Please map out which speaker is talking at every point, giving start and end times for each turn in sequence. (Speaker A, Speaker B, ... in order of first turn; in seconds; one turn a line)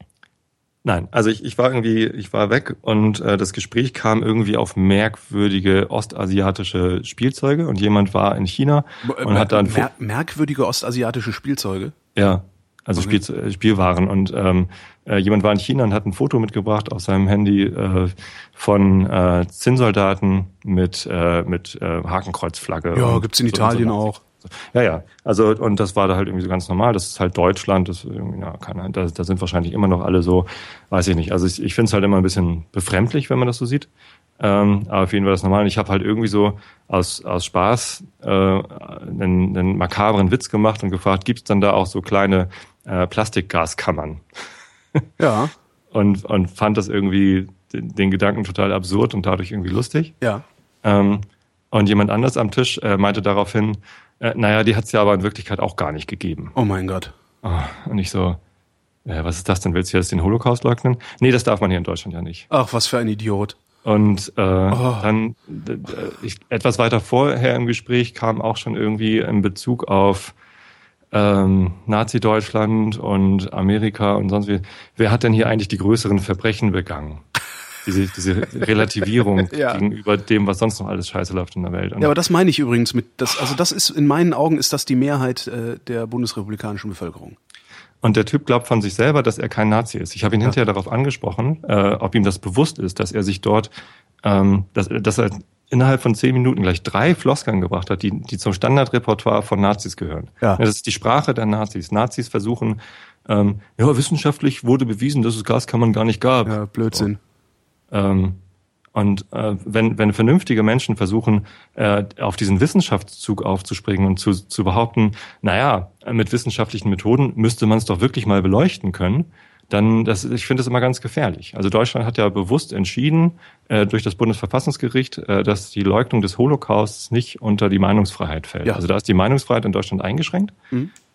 Speaker A: 0.8-9.9
Speaker B: 9.0-11.9
Speaker A: 12.2-44.2
Speaker B: 22.9-24.2
Speaker B: 45.2-45.5
Speaker A: 45.9-50.2
Speaker A: 50.8-56.5
Speaker B: 56.5-57.1
Speaker A: 57.4-58.4
Speaker A: 59.0-62.5
Speaker B: 62.5-63.6
Speaker A: 63.8-70.3
Speaker B: 64.7-65.1
Speaker A: 71.1-77.2
Speaker A: 77.8-82.1
Speaker B: 79.5-79.8
Speaker B: 82.0-87.4
Speaker A: 88.0-93.7
Speaker A: 94.2-107.1
Speaker B: 106.5-107.2
Speaker A: 107.9-108.4
Speaker A: 108.9-130.6